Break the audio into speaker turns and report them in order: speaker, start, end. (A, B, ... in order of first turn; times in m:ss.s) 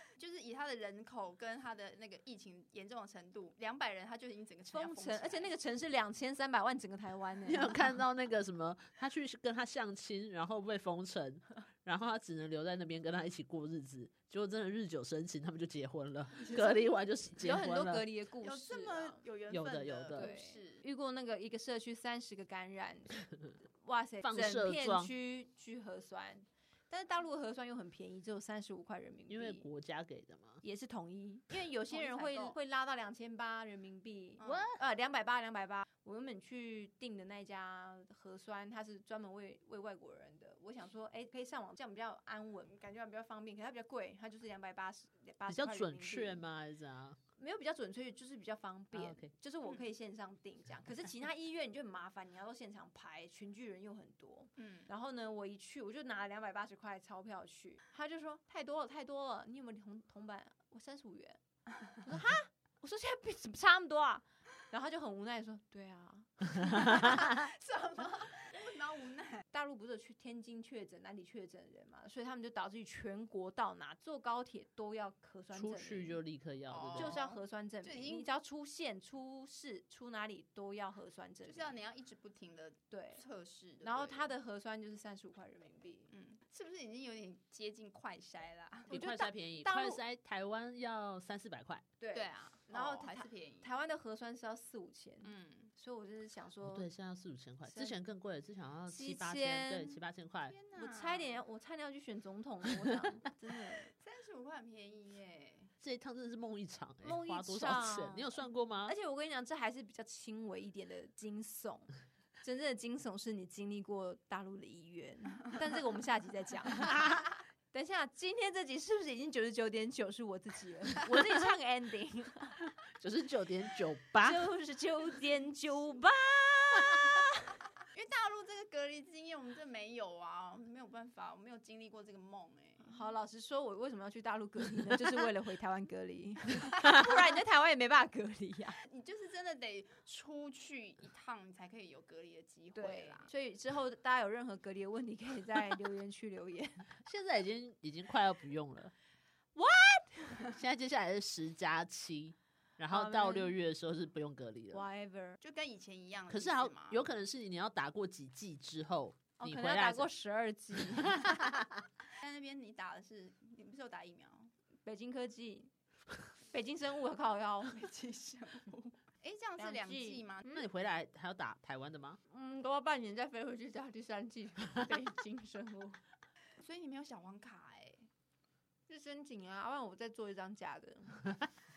0:00.2-0:05.5 A
0:04.7-0:08.0 B
0:07.5-0:18.1 C
0:16.4-0:16.8 B
0:17.4-0:19.2 B
0:18.4-0:20.8 A
0:19.5-0:20.3 C
0:20.1-0:23.3 B
0:23.8-0:29.7 B
0:24.2-0:25.1 C
0:29.3-0:30.6 C
0:30.6-0:46.4 B
0:31.9-0:32.6 A
0:34.4-0:34.8 A
0:45.5-0:47.2 C
0:47.4-1:01.4 B
0:48.9-0:49.3 C
0:54.6-0:54.9 A
1:01.9-1:07.1 B
1:06.7-1:09.4 A
1:09.5-1:16.2 B
1:15.5-1:17.2 C
1:16.7-1:18.3 A
1:17.0-1:21.8 B
1:21.5-1:24.3 A
1:22.9-1:23.2 B
1:23.8-1:26.1 B
1:26.1-1:28.9 A
1:28.9-1:30.0 B
1:28.9-1:31.9 C
1:32.0-1:36.9 B
1:32.1-1:33.7 A
1:35.2-1:35.7 A
1:36.6-1:40.6 C
1:37.7-1:38.0 B
1:38.9-1:40.0 B
1:40.5-1:41.4 A
1:40.8-1:43.9 B
1:44.0-1:45.7 A
1:45.8-1:49.0 C
1:47.0-2:02.6 B
2:03.0-2:04.4 C
2:04.2-2:07.5 B
2:07.9-2:12.9 A
2:12.8-2:18.8 B
2:18.9-2:23.3 A
2:22.7-2:26.9 B
2:27.0-2:28.9 C
2:29.6-2:30.6 B
2:30.6-2:34.8 C
2:32.9-2:33.5 B
2:34.7-2:35.4 B
2:35.4-2:37.0 A
2:36.3-2:40.1 C
2:39.4-2:41.5 B
2:40.9-2:41.7 C
2:42.2-2:44.5 A
2:44.8-2:45.7 B
2:46.4-2:47.9 B
2:47.7-2:50.5 A
2:49.6-2:50.6 B
2:50.5-2:52.2 C
2:52.3-2:56.0 B
2:56.6-2:58.1 A
2:58.9-3:01.4 B